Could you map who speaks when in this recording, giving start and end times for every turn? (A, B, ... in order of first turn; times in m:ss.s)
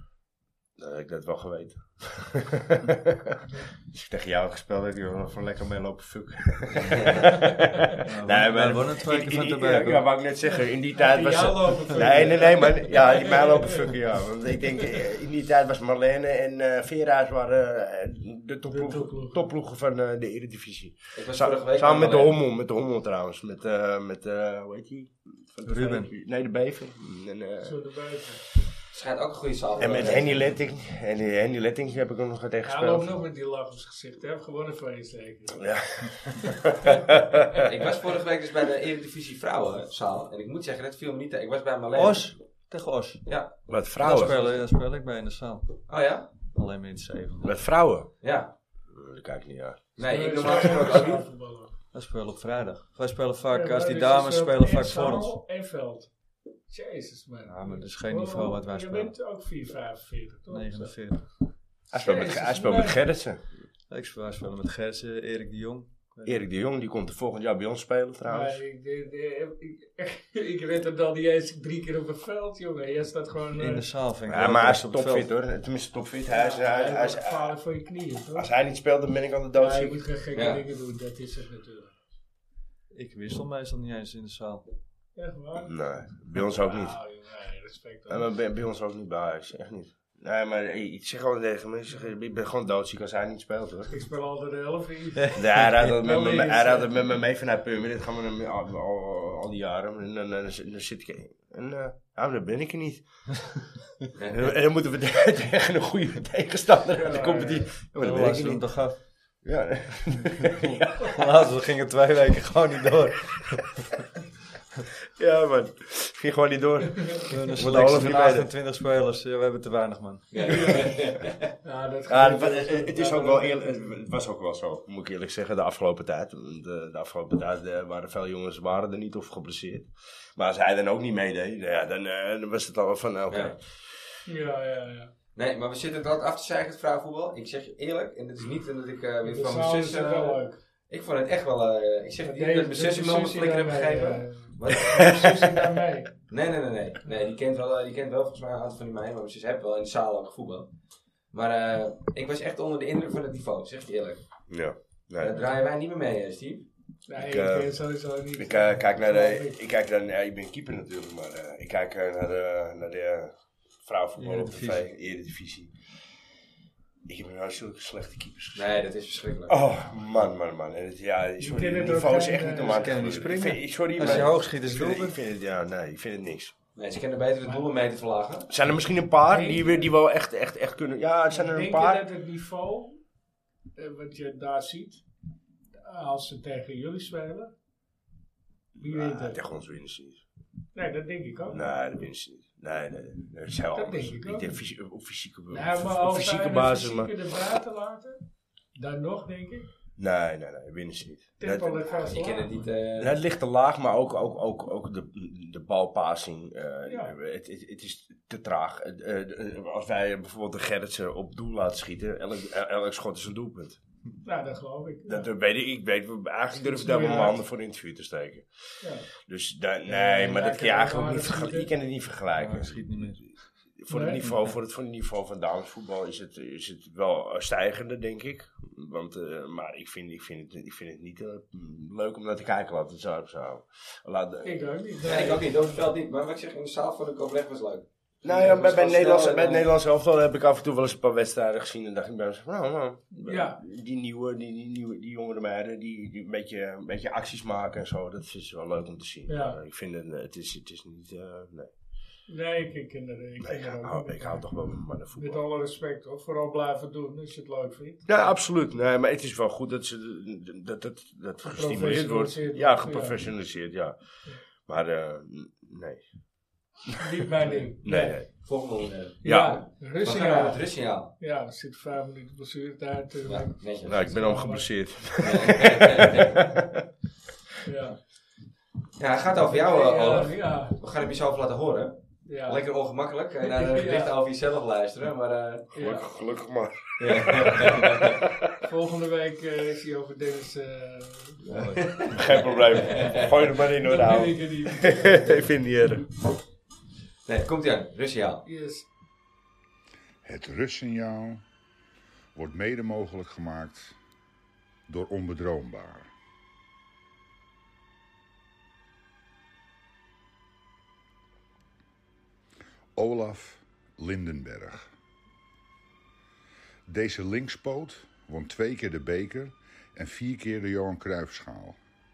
0:00.8-0:27.8 A
0:08.0-0:10.0 B
0:10.5-0:13.8 C
0:18.7-0:19.5 C
0:21.1-0:22.4 D
0:25.6-0:26.1 B
0:27.6-0:28.4 C
0:28.9-0:30.5 D
0:29.8-0:33.1 A
0:29.8-0:30.2 C
0:32.6-0:35.7 C
0:35.6-0:37.5 A
0:37.6-0:42.4 D
0:41.9-0:43.2 B
0:43.2-0:43.6 D
0:43.7-0:44.5 A
0:44.0-0:45.9 B
0:44.2-0:44.5 D
0:45.9-0:46.3 D
0:46.4-0:47.5 B
0:47.4-0:48.1 A
0:48.2-0:48.5 D
0:48.9-0:51.0 A
0:50.0-0:51.2 D
0:50.0-0:51.7 C
0:51.9-0:55.4 B
0:53.5-0:56.1 C
0:56.7-1:01.0 C
0:57.5-0:59.1 B
1:00.5-1:01.3 B
1:01.9-1:03.4 A
1:02.0-1:03.0 C
1:03.9-1:06.4 B
1:06.2-1:08.6 A
1:08.2-1:13.9 C
1:13.6-1:15.3 B
1:14.3-1:17.6 A
1:16.3-1:18.5 C
1:18.3-1:20.0 A
1:19.5-1:22.0 C
1:20.3-1:20.6 D
1:22.9-1:24.6 B
1:25.2-1:28.3 C
1:25.6-1:27.0 A
1:28.1-1:33.9 A
1:33.9-1:37.2 C
1:35.3-1:43.6 A
1:44.2-1:44.4 D
1:44.3-1:48.9 A
1:46.9-1:47.7 C
1:48.0-1:49.0 B
1:49.4-1:50.8 A
1:50.5-1:53.9 B
1:55.2-1:58.5 A
1:57.3-2:00.9 B
2:00.3-2:01.4 D
2:00.5-2:01.0 C
2:01.6-2:03.9 C
2:02.1-2:14.0 A
2:13.3-2:13.5 D
2:14.2-2:15.1 C
2:15.3-2:25.2 D
2:19.2-2:20.6 C
2:22.2-2:26.2 C
2:26.3-2:30.7 D
2:31.3-2:34.2 D
2:34.5-2:35.4 A
2:35.2-2:36.7 D
2:37.1-2:39.6 C
2:37.2-2:37.8 A
2:38.3-2:46.1 A
2:44.2-2:44.9 B
2:47.0-2:48.8 A
2:48.5-2:49.6 D
2:49.5-2:56.5 A
2:51.4-2:53.0 C
2:52.6-2:55.2 B
2:54.0-2:54.3 D
2:56.8-2:58.5 D
2:58.5-3:02.1 A
2:59.3-2:59.9 C
3:01.3-3:03.0 C
3:03.8-3:05.0 C
3:05.8-3:07.5 C
3:08.7-3:10.2 A
3:08.8-3:09.4 C
3:10.7-3:11.8 C
3:11.5-3:17.1 A
3:13.7-3:14.6 C
3:15.5-3:18.2 C
3:18.8-3:19.7 C
3:20.0-3:21.8 A
3:21.4-3:22.5 C
3:21.9-3:23.1 D
3:23.0-3:33.8 A
3:26.8-3:27.1 C
3:34.2-3:35.3 C
3:35.1-3:54.6 A
3:36.6-3:37.4 C
3:38.8-3:39.0 C
3:39.9-3:41.7 C
3:42.4-3:43.4 B
3:43.9-3:44.2 C
3:54.4-3:55.8 C
3:55.0-3:59.7 D
3:58.2-4:11.7 A
4:03.2-4:03.6 C
4:09.3-4:09.6 C
4:12.3-4:18.3 C
4:13.4-4:15.4 A
4:18.0-4:24.0 A
4:21.4-4:23.2 C
4:24.6-4:26.1 A
4:27.0-4:28.2 C
4:27.8-4:28.3 A
4:28.3-4:31.1 D
4:29.2-4:34.7 C
4:29.2-4:29.6 A
4:33.2-4:34.0 D
4:33.8-4:36.7 A
4:35.2-4:36.4 D
4:37.6-4:38.0 C
4:39.0-4:45.7 D
4:39.5-4:40.8 C
4:42.2-4:42.6 C
4:43.4-4:44.2 C
4:45.7-4:46.0 C
4:45.8-4:48.3 A
4:47.0-4:48.2 D
4:48.6-4:51.8 C
4:51.4-4:53.3 D
4:52.1-4:56.0 A
4:53.8-4:55.5 C
4:57.2-4:58.4 D
4:58.4-4:58.9 C
5:00.2-5:01.4 E
5:02.3-5:04.0 E
5:04.9-5:06.1 E
5:13.0-5:14.9 E
5:16.9-5:21.8 E